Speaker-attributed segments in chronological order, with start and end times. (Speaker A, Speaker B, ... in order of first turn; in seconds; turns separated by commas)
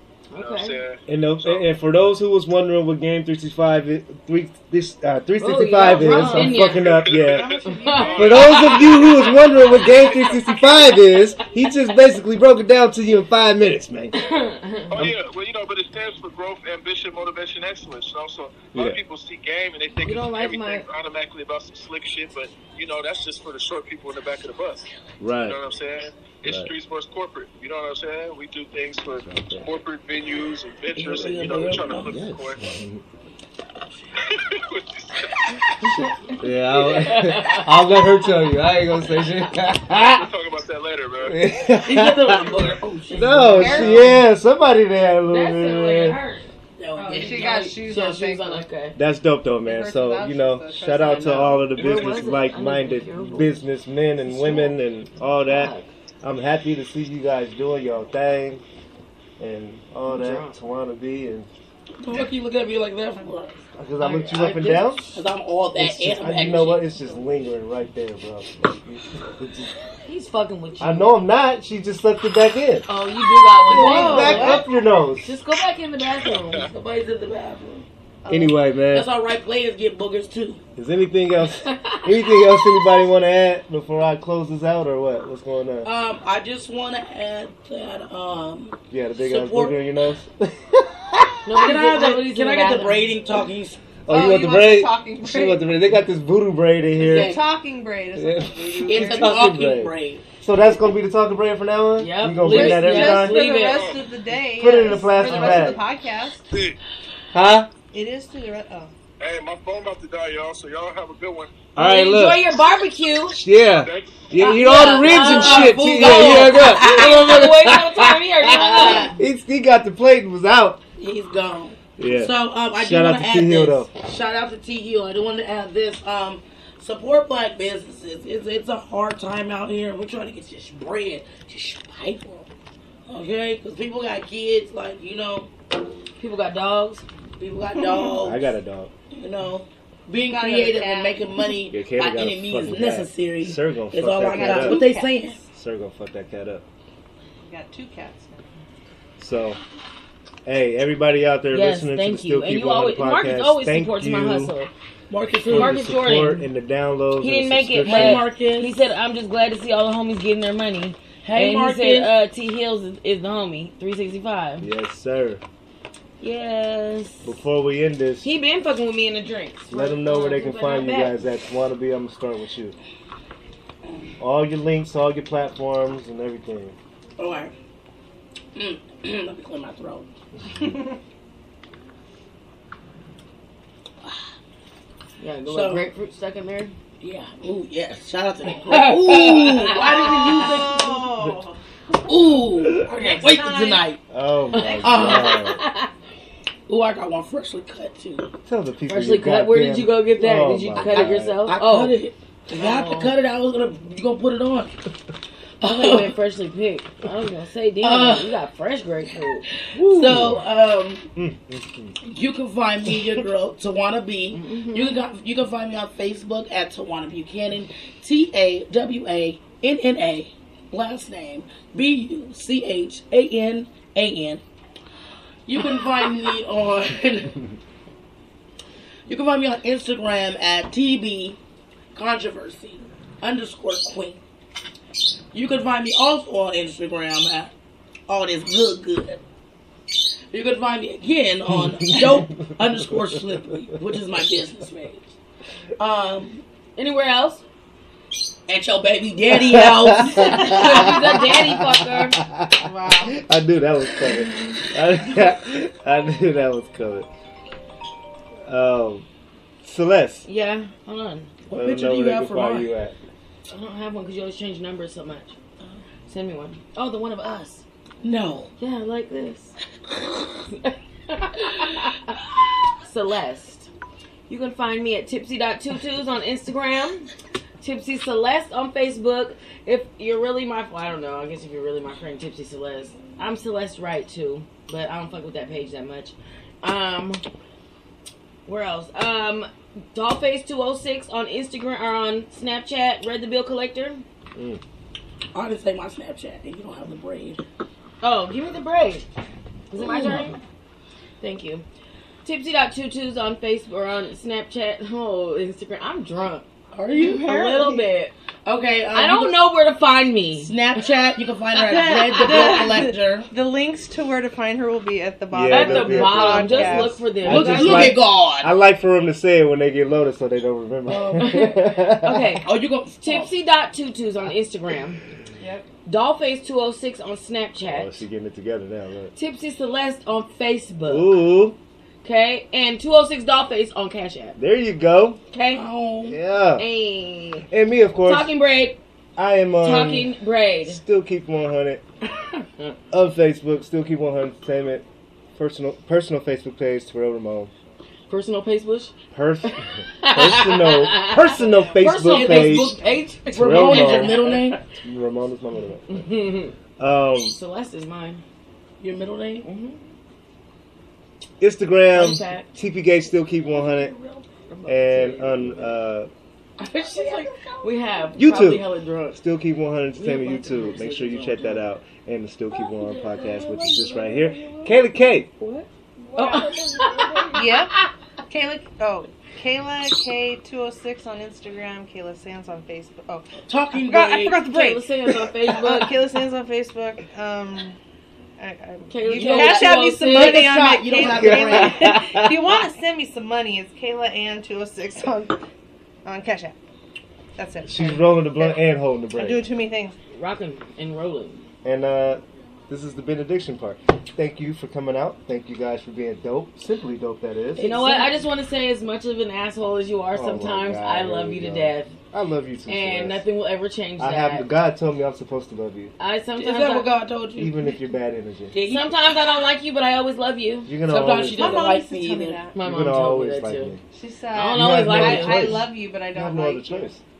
Speaker A: 0.3-0.8, Speaker B: 0.4-1.6, Speaker C: 1.1-7.5, Speaker A: 5.4-6.9, Speaker D: 5.9-9.2, Speaker B: 6.6-10.8, Speaker A: 7.6-9.1, Speaker C: 8.2-14.2, Speaker A: 14.2-14.9, Speaker B: 14.9-32.6, Speaker C: 18.7-19.0, Speaker A: 20.0-20.9, Speaker C: 25.2-25.6, Speaker C: 26.4-26.7, Speaker C: 29.2-29.7, Speaker E: 30.9-32.1, Speaker C: 32.0-33.0, Speaker B: 34.2-35.6, Speaker C: 35.8-40.3, Speaker A: 35.8-37.9, Speaker B: 40.0-41.4, Speaker C: 41.2-46.2, Speaker E: 41.8-44.1, Speaker A: 43.4-44.2, Speaker A: 45.3-49.0, Speaker E: 46.8-47.6, Speaker D: 47.1-48.6, Speaker C: 49.0-58.6, Speaker D: 49.6-51.7, Speaker A: 51.4-53.6, Speaker A: 54.2-54.8, Speaker A: 55.5-55.9, Speaker C: 59.4-61.5, Speaker A: 60.0-60.5, Speaker E: 62.0-63.6, Speaker C: 63.8-65.1, Speaker E: 64.1-66.9, Speaker C: 65.7-69.7, Speaker A: 70.0-71.1, Speaker C: 70.8-72.8, Speaker A: 72.9-74.6, Speaker D: 73.7-74.6, Speaker C: 73.7-75.3, Speaker A: 75.2-76.7, Speaker B: 76.2-76.7, Speaker E: 76.6-80.6, Speaker C: 78.3-79.1, Speaker C: 80.8-85.9, Speaker A: 81.6-82.1, Speaker E: 85.8-89.8, Speaker C: 88.9-91.6, Speaker A: 91.4-93.1, Speaker E: 91.6-93.8, Speaker C: 94.1-97.3, Speaker D: 94.1-95.7, Speaker D: 97.0-99.5, Speaker E: 97.0-97.4, Speaker C: 98.2-103.4, Speaker E: 98.8-100.2, Speaker A: 102.0-103.9, Speaker D: 102.4-106.4, Speaker B: 103.5-104.0, Speaker C: 104.5-105.8, Speaker A: 105.3-105.6, Speaker B: 106.5-106.8, Speaker C: 107.3-107.7, Speaker D: 107.9-108.9, Speaker B: 109.2-111.6, Speaker C: 111.7-112.5, Speaker A: 111.8-113.4, Speaker C: 113.3-120.8, Speaker B: 113.8-114.7, Speaker A: 114.4-119.2, Speaker E: 115.0-117.5, Speaker E: 118.6-119.2, Speaker E: 121.0-132.5, Speaker C: 122.0-123.9, Speaker E: 133.1-135.5, Speaker A: 136.2-137.1, Speaker E: 137.4-138.4, Speaker C: 138.2-138.9, Speaker E: 139.1-145.4, Speaker D: 140.2-141.4, Speaker C: 141.7-144.8, Speaker D: 144.2-145.4, Speaker C: 145.5-146.6, Speaker D: 147.4-148.4, Speaker C: 149.2-149.6, Speaker C: 150.4-154.5, Speaker A: 151.5-154.7, Speaker E: 155.1-155.8, Speaker C: 155.5-158.3, Speaker A: 155.5-156.5, Speaker A: 157.2-164.7, Speaker E: 157.8-158.8, Speaker E: 161.2-162.1, Speaker C: 164.6-165.4, Speaker A: 166.2-167.3, Speaker C: 167.2-168.2, Speaker A: 168.2-171.3, Speaker C: 169.7-172.8, Speaker E: 173.8-174.1, Speaker C: 174.2-176.8, Speaker E: 177.2-177.5, Speaker E: 178.5-180.1, Speaker D: 180.6-180.8, Speaker A: 185.2-186.7, Speaker E: 185.5-185.9, Speaker E: 187.0-191.1, Speaker A: 188.6-190.6, Speaker D: 189.8-191.6, Speaker E: 191.9-194.0, Speaker D: 192.8-193.9, Speaker C: 194.1-195.6, Speaker A: 194.5-195.9, Speaker E: 194.8-195.5, Speaker E: 196.7-198.3, Speaker C: 198.4-201.4, Speaker A: 198.9-201.9, Speaker E: 200.8-204.7, Speaker A: 202.5-203.1, Speaker E: 205.6-206.1, Speaker A: 205.6-209.4, Speaker E: 207.8-208.3, Speaker E: 209.6-211.1, Speaker C: 209.7-210.5, Speaker C: 211.2-211.9, Speaker E: 212.0-224.4, Speaker C: 212.9-213.2, Speaker A: 214.3-215.0, Speaker E: 225.4-227.4, Speaker E: 229.1-231.4, Speaker E: 231.9-234.2, Speaker E: 235.3-237.5, Speaker E: 238.1-239.2, Speaker E: 240.3-245.1, Speaker C: 241.5-243.8, Speaker E: 245.8-246.4, Speaker A: 246.8-247.4, Speaker E: 248.5-251.2, Speaker C: 249.3-257.1, Speaker A: 250.2-252.2, Speaker D: 252.5-253.2, Speaker C: 258.4-259.0, Speaker C: 259.6-260.2, Speaker A: 260.2-261.3, Speaker E: 261.5-262.7, Speaker C: 261.5-262.9, Speaker A: 263.5-265.3, Speaker A: 266.1-267.6, Speaker E: 268.0-268.5, Speaker A: 268.6-269.5, Speaker A: 270.5-271.9, Speaker A: 272.8-273.7, Speaker A: 274.3-277.1, Speaker A: 277.6-287.2, Speaker A: 288.4-294.0, Speaker C: 294.3-294.6, Speaker E: 295.3-297.4, Speaker A: 298.0-299.1, Speaker A: 299.7-300.4, Speaker E: 299.8-300.4, Speaker A: 301.2-301.6, Speaker A: 302.2-306.4, Speaker E: 306.7-307.3, Speaker D: 306.9-307.9, Speaker A: 307.2-308.1, Speaker E: 308.4-309.4, Speaker A: 308.9-310.5, Speaker E: 310.4-313.3, Speaker D: 311.5-317.1, Speaker A: 312.1-312.7, Speaker C: 315.3-322.4, Speaker A: 315.5-318.0, Speaker E: 317.2-318.5, Speaker E: 320.9-321.6, Speaker A: 321.2-322.5, Speaker E: 322.4-323.4, Speaker A: 323.0-325.0, Speaker D: 325.4-325.6, Speaker A: 325.9-327.9, Speaker C: 327.6-329.1, Speaker A: 329.1-331.2, Speaker C: 330.9-331.6, Speaker A: 332.0-334.4, Speaker C: 334.4-335.2, Speaker A: 335.3-335.6, Speaker E: 335.5-336.2, Speaker C: 336.1-336.6, Speaker A: 336.6-337.5, Speaker C: 337.5-338.3, Speaker A: 338.0-338.8, Speaker C: 339.2-340.1, Speaker A: 339.6-340.8, Speaker C: 340.6-341.8, Speaker C: 342.9-344.8, Speaker C: 345.4-347.5, Speaker A: 348.1-348.9, Speaker C: 349.1-352.7, Speaker A: 350.0-354.6, Speaker E: 351.8-354.6, Speaker C: 353.3-356.1, Speaker A: 355.9-356.5, Speaker C: 356.8-357.3, Speaker A: 357.3-358.2, Speaker E: 358.8-359.5, Speaker A: 359.4-359.8, Speaker C: 361.4-363.9, Speaker A: 361.9-362.6, Speaker E: 363.5-364.3, Speaker A: 364.0-365.8, Speaker C: 364.6-366.1, Speaker A: 366.6-369.2, Speaker E: 366.9-367.6, Speaker C: 368.2-375.3, Speaker A: 369.9-371.6, Speaker A: 372.6-374.9, Speaker A: 375.4-377.9, Speaker D: 376.1-384.9, Speaker E: 383.5-384.5, Speaker A: 384.4-386.0, Speaker D: 385.4-387.8, Speaker D: 388.4-395.4, Speaker A: 388.9-390.5, Speaker E: 389.1-391.9, Speaker C: 391.0-392.5, Speaker D: 396.0-396.6, Speaker D: 397.4-398.6, Speaker C: 397.7-399.5, Speaker D: 399.1-400.0, Speaker A: 400.1-401.4, Speaker C: 401.6-408.0, Speaker A: 407.6-411.9, Speaker E: 407.7-408.1, Speaker C: 410.1-413.2, Speaker A: 412.7-414.5, Speaker C: 414.0-415.9, Speaker A: 416.0-416.9, Speaker E: 416.4-417.7, Speaker C: 417.4-418.5, Speaker E: 418.5-418.9, Speaker A: 418.6-420.7, Speaker C: 420.7-421.8, Speaker E: 420.9-422.4, Speaker D: 421.3-422.6, Speaker A: 422.5-423.7, Speaker C: 422.6-423.8, Speaker D: 423.9-426.9, Speaker A: 424.3-425.6, Speaker C: 424.5-427.0